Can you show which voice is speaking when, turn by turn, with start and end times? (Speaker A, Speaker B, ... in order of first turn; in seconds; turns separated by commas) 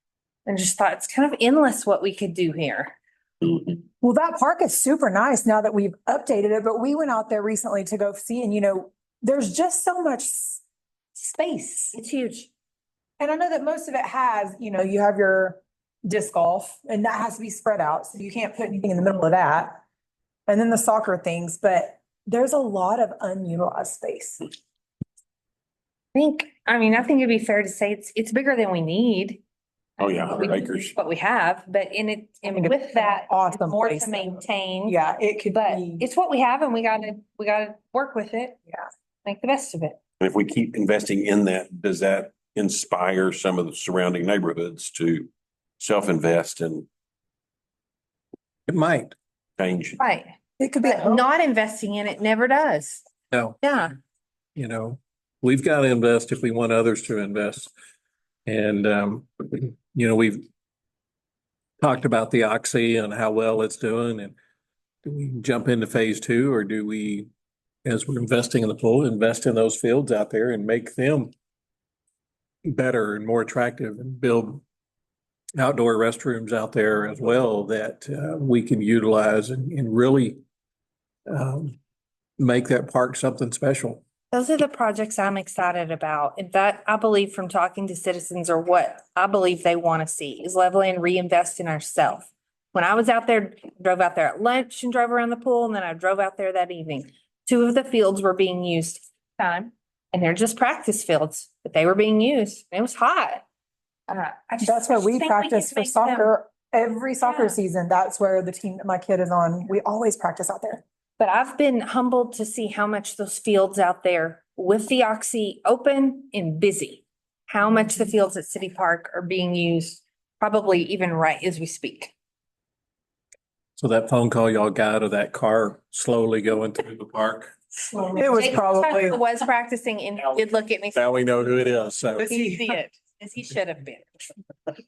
Speaker A: 0.5-2.9, Speaker B: 4.0-10.6, Speaker B: 11.2-12.0, Speaker A: 11.9-12.5, Speaker B: 13.2-19.8, Speaker B: 20.5-24.4, Speaker A: 26.1-29.4, Speaker C: 30.0-30.9, Speaker A: 30.0-35.0, Speaker B: 32.5-34.3, Speaker B: 34.9-36.0, Speaker A: 35.5-38.6, Speaker A: 39.2-40.0, Speaker C: 40.2-46.9, Speaker D: 48.7-49.1, Speaker C: 49.6-50.0, Speaker A: 50.0-53.0, Speaker B: 50.6-51.3, Speaker D: 53.3-53.6, Speaker A: 53.6-53.9, Speaker D: 54.6-57.7, Speaker D: 58.5-60.5, Speaker D: 61.8-64.3, Speaker D: 65.0-67.3, Speaker D: 67.8-71.3, Speaker D: 72.7-74.6, Speaker D: 75.6-80.4, Speaker D: 81.3-81.8, Speaker D: 82.4-84.0, Speaker A: 84.3-103.4, Speaker A: 104.1-106.3, Speaker B: 104.6-110.8, Speaker A: 107.2-107.6, Speaker A: 111.2-122.1, Speaker D: 123.8-127.6, Speaker B: 128.1-129.2, Speaker A: 128.2-131.0, Speaker D: 130.9-132.3, Speaker B: 132.2-132.8, Speaker A: 132.2-134.1